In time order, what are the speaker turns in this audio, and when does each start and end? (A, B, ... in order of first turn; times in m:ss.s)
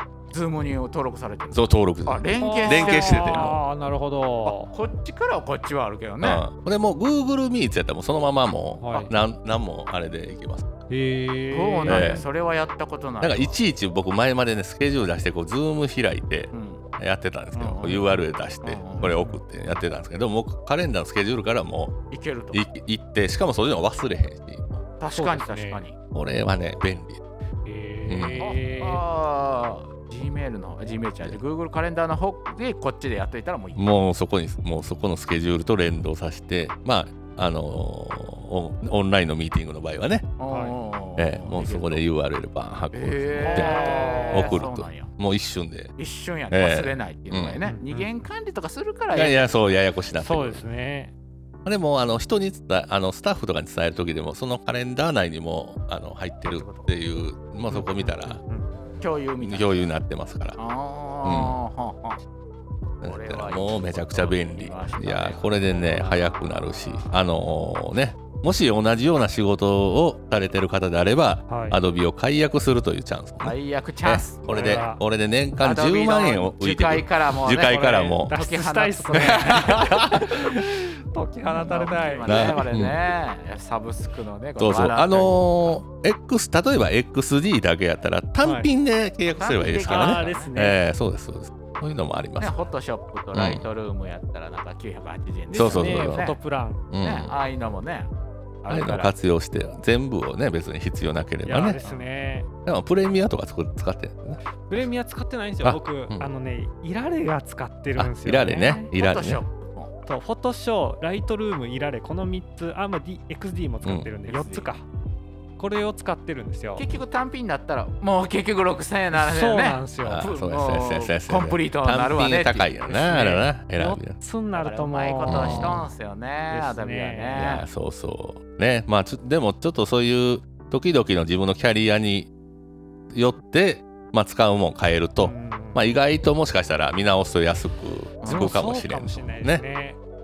0:00.3-0:03.6 A
0:01.5-0:03.6 B
0:02.4-0:04.7 C
0:04.4-0:06.4 A
0:06.2-0:10.7 B
0:08.8-0:09.1 C
0:10.9-0:12.2 C
0:11.5-0:13.6 A
0:11.9-0:12.2 B
0:13.2-0:21.9 B
0:16.5-0:16.8 A
0:17.6-0:19.2 A
0:19.0-0:19.4 C
0:22.1-0:22.6 A
0:22.5-0:24.8 B
0:25.0-0:26.0 A
0:25.1-0:25.8 C
0:26.1-0:27.2 B
0:27.6-0:29.0 C
0:28.1-0:28.4 B
0:28.4-0:33.8 A
0:33.8-0:40.3 B
0:40.4-0:42.0 A
0:40.5-0:40.8 C
0:41.2-0:45.9 B
0:42.9-0:45.1 A
0:43.4-0:44.7 C
0:46.0-0:49.5 A
0:46.5-0:47.6 B
0:47.6-0:48.1 C
0:49.1-0:50.6 B
0:50.1-0:51.1 C
0:51.6-0:58.4 B
0:56.4-0:56.9 A
0:57.7-0:58.8 C
0:59.0-0:59.9 A
0:59.4-1:00.6 B
1:00.6-1:02.2 A
1:01.2-1:01.6 B
1:03.0-1:18.3 B
1:03.0-1:06.5 A
1:11.5-1:11.8 C
1:13.4-1:14.8 A
1:14.5-1:15.0 C
1:15.6-1:20.2 A
1:17.6-1:22.8 C
1:19.1-1:20.4 B
1:21.5-1:25.8 A
1:22.3-1:23.0 B
1:24.6-1:32.7 B
1:28.4-1:28.7 C
1:29.3-1:30.6 A
1:29.9-1:30.8 C
1:32.4-1:36.4 A
1:33.3-1:33.6 B
1:35.5-1:36.8 C
1:35.5-1:36.4 B
1:36.9-1:37.4 B
1:37.0-1:38.1 A
1:38.6-1:39.1 A
1:38.7-1:41.8 B
1:41.4-1:42.5 C
1:41.8-1:42.1 A
1:42.6-1:44.8 B
1:44.7-1:48.9 C
1:45.6-1:46.3 B
1:48.0-1:49.4 B
1:48.9-1:49.9 A
1:50.1-1:54.8 C
1:53.8-1:54.1 B
1:54.2-1:54.7 A
1:55.6-1:56.9 C
1:56.8-2:02.9 A
1:59.1-2:00.3 C
2:00.0-2:04.2 B
2:02.9-2:05.9 C
2:04.6-2:07.7 A
2:05.2-2:05.8 B
2:06.5-2:07.4 C
2:07.4-2:12.3 B
2:13.1-2:19.6 B
2:15.2-2:15.8 C
2:18.2-2:18.5 A
2:18.3-2:20.0 C